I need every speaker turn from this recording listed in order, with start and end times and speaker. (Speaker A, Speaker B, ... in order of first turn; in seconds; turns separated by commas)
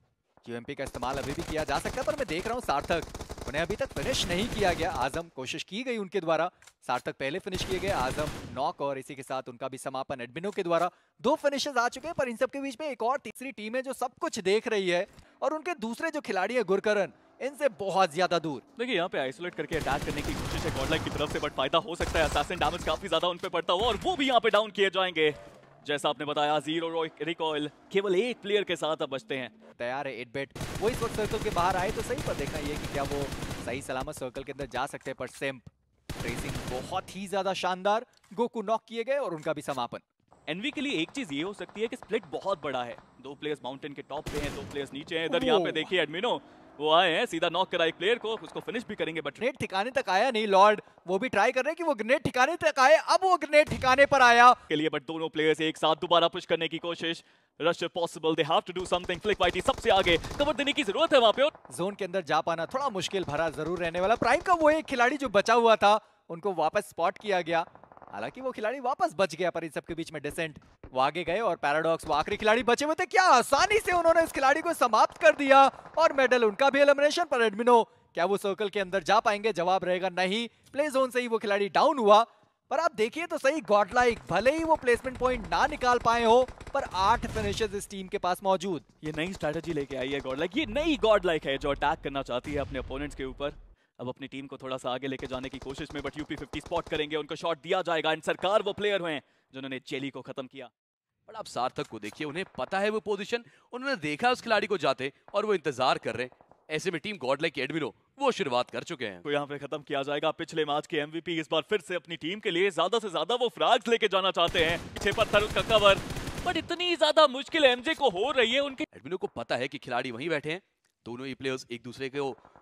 Speaker A: 0.4-18.6, Speaker B: 18.8-29.5, Speaker A: 29.8-35.7, Speaker A: 36.2-40.0, Speaker B: 40.5-49.4, Speaker A: 45.4-45.8, Speaker A: 49.4-54.6, Speaker B: 54.7-61.5, Speaker A: 61.7-88.8, Speaker B: 89.0-100.7, Speaker C: 101.3-109.2, Speaker B: 109.2-118.8, Speaker C: 118.9-122.4